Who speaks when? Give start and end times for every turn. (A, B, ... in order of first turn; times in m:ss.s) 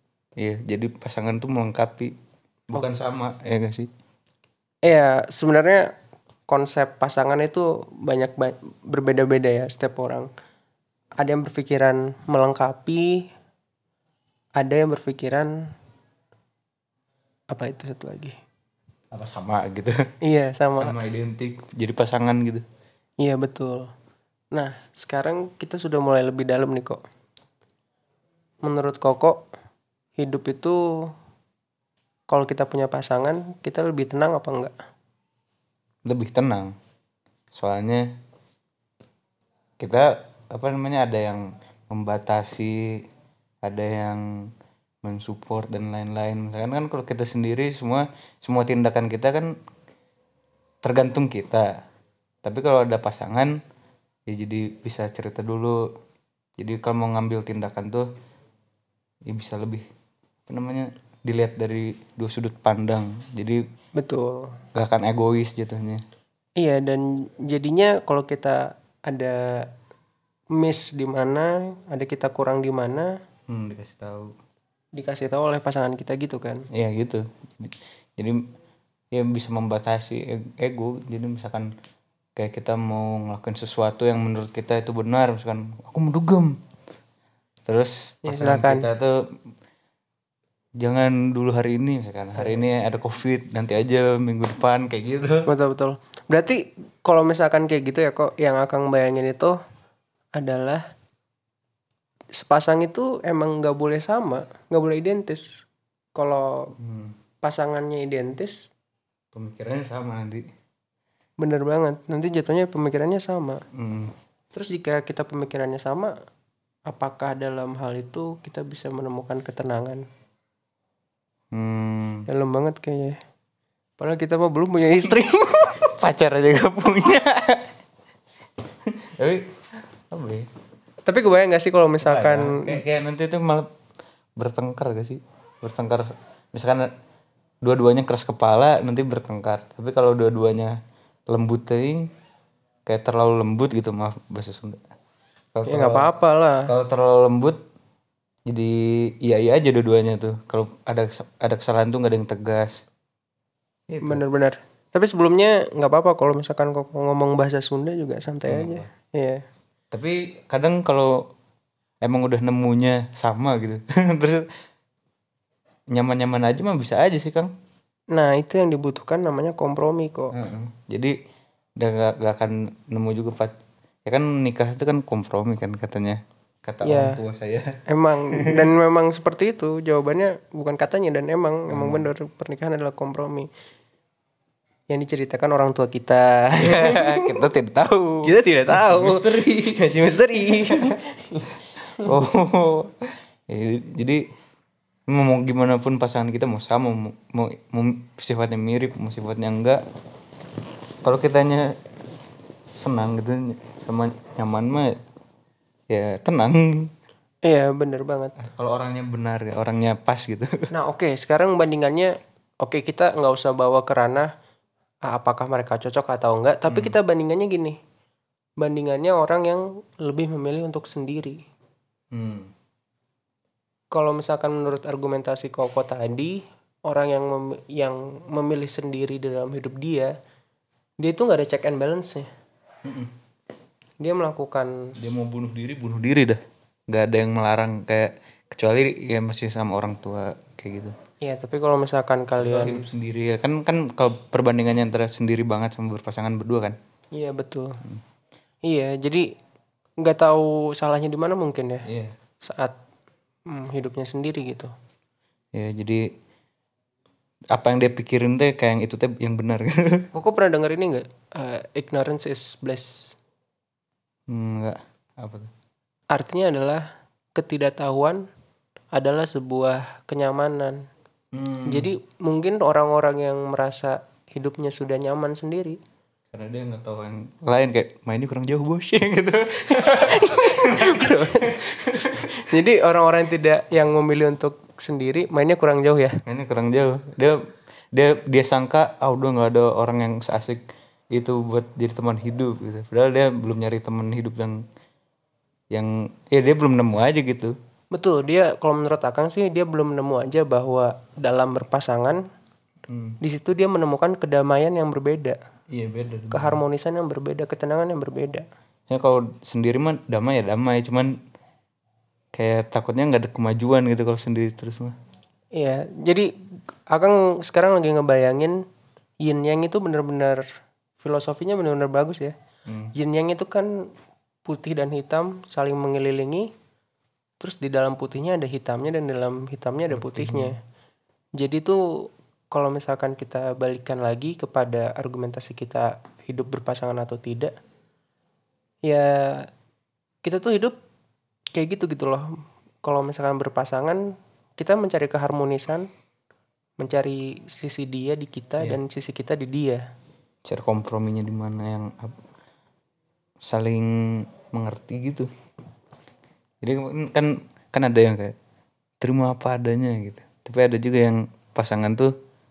0:00.4-0:02.1 A
0:02.7-0:03.9 A
0:04.9-0:05.9 B
0:06.5-0:10.3 B
0:11.2-0:13.2 B
0:14.6-0:15.5 B
0:17.5-0:18.4 B
0:19.1-0:20.0 A
0:20.2-0:21.0 B
0:20.7-0:22.6 A
0:23.2-0:23.9 B
0:24.5-0:27.0 B
0:28.6-0:29.5 B
0:30.2-0:30.8 B
0:32.3-0:34.7 B
0:36.0-0:36.7 A
0:37.5-0:38.1 A
0:39.8-0:42.9 A
0:43.6-0:44.5 A
0:45.0-0:49.6 A
0:50.8-0:51.7 A
0:52.4-0:53.6 A
0:54.3-0:55.8 A
0:56.6-0:58.1 A
0:59.3-0:59.8 A
1:00.5-1:03.6 A
1:04.0-1:04.5 B
1:04.8-1:06.0 A
1:06.6-1:09.7 B
1:10.6-1:13.1 B
1:13.5-1:14.3 A
1:15.0-1:16.7 B
1:16.7-1:18.4 A
1:19.1-1:21.7 A
1:22.4-1:26.6 A
1:27.7-1:29.2 A
1:28.3-1:28.9 B
1:30.8-1:35.5 A
1:35.5-1:39.6 B
1:40.4-1:40.8 B
1:42.4-1:45.6 B
1:46.2-1:46.7 B
1:46.8-1:47.2 A
1:47.4-1:48.7 B
1:49.3-1:50.4 A
1:51.4-1:53.6 B
1:53.7-1:54.1 A
1:54.5-1:56.1 B
1:56.9-2:00.0 B
2:01.5-2:02.3 A
2:02.3-2:03.2 B
2:04.0-2:05.8 B
2:05.8-2:07.7 A
2:08.9-2:09.5 A
2:10.1-2:10.5 A
2:11.1-2:12.8 B
2:12.0-2:13.7 A
2:14.4-2:16.9 A
2:17.6-2:20.8 A
2:21.3-2:22.1 A
2:22.9-2:24.8 A
2:25.6-2:26.1 A
2:25.7-2:26.7 B
2:26.7-2:27.6 A
2:28.5-2:32.8 A
2:33.9-2:34.2 A
2:34.0-2:39.4 B
2:38.5-2:38.9 A
2:39.9-2:41.3 A
2:42.0-2:44.5 A
2:45.9-2:47.5 A
2:48.1-2:50.3 B
2:50.3-2:51.1 A
2:51.8-2:53.5 A
2:54.1-2:57.8 A
2:56.8-2:57.2 B
2:57.9-3:03.5 B
2:58.3-2:58.7 A
3:01.7-3:02.1 A
3:04.9-3:07.4 B
3:06.6-3:09.8 A
3:08.2-3:12.1 B
3:10.7-3:10.9 A
3:12.0-3:14.2 A
3:15.1-3:19.8 A
3:21.0-3:21.8 A
3:22.8-3:25.0 A
3:25.9-3:26.9 A
3:27.4-3:28.4 B
3:28.4-3:30.5 A
3:30.7-3:34.3 B
3:35.1-3:37.8 B
3:36.7-3:37.0 A
3:38.6-3:41.4 B
3:42.1-3:42.5 A
3:43.9-3:50.1 B
3:51.0-3:52.3 B
3:52.8-3:53.1 A
3:54.0-3:54.8 B
3:55.0-3:56.4 A
3:56.9-4:01.0 A
4:01.2-4:02.8 B
4:02.4-4:06.8 A
4:07.1-4:07.8 B
4:08.7-4:09.2 B
4:10.0-4:11.9 B
4:11.8-4:12.1 A
4:12.4-4:12.8 B
4:13.5-4:14.7 B
4:15.6-4:16.1 A
4:17.5-4:20.1 A
4:20.1-4:23.2 B
4:24.3-4:25.5 A
4:26.1-4:26.8 B
4:27.4-4:28.2 B
4:28.9-4:30.8 B
4:31.3-4:31.9 A
4:31.7-4:35.8 B
4:36.3-4:42.3 A
4:39.8-4:46.2 B
4:46.3-4:47.4 A
4:47.9-4:50.6 A
4:51.1-4:54.6 A
4:55.7-4:57.6 A
4:57.9-5:02.2 B
5:02.9-5:03.2 A
5:03.2-5:05.4 B
5:05.7-5:06.6 A
5:06.3-5:08.4 B
5:08.9-5:11.2 A
5:12.4-5:15.0 A
5:15.6-5:16.3 B
5:16.9-5:18.6 B
5:19.2-5:20.4 B
5:21.0-5:22.4 B
5:22.7-5:22.9 A
5:23.0-5:23.7 B
5:24.5-5:26.5 B
5:27.4-5:30.6 B
5:29.9-5:30.5 A
5:31.4-5:31.8 B
5:32.5-5:37.5 B
5:38.8-5:39.5 B
5:40.2-5:40.8 B
5:41.6-5:42.3 B
5:42.8-5:44.0 B
5:44.6-5:45.9 B
5:46.8-5:49.8 B
5:50.4-5:52.2 A
5:53.4-5:55.3 A
5:56.6-5:58.3 A
5:59.0-6:02.1 A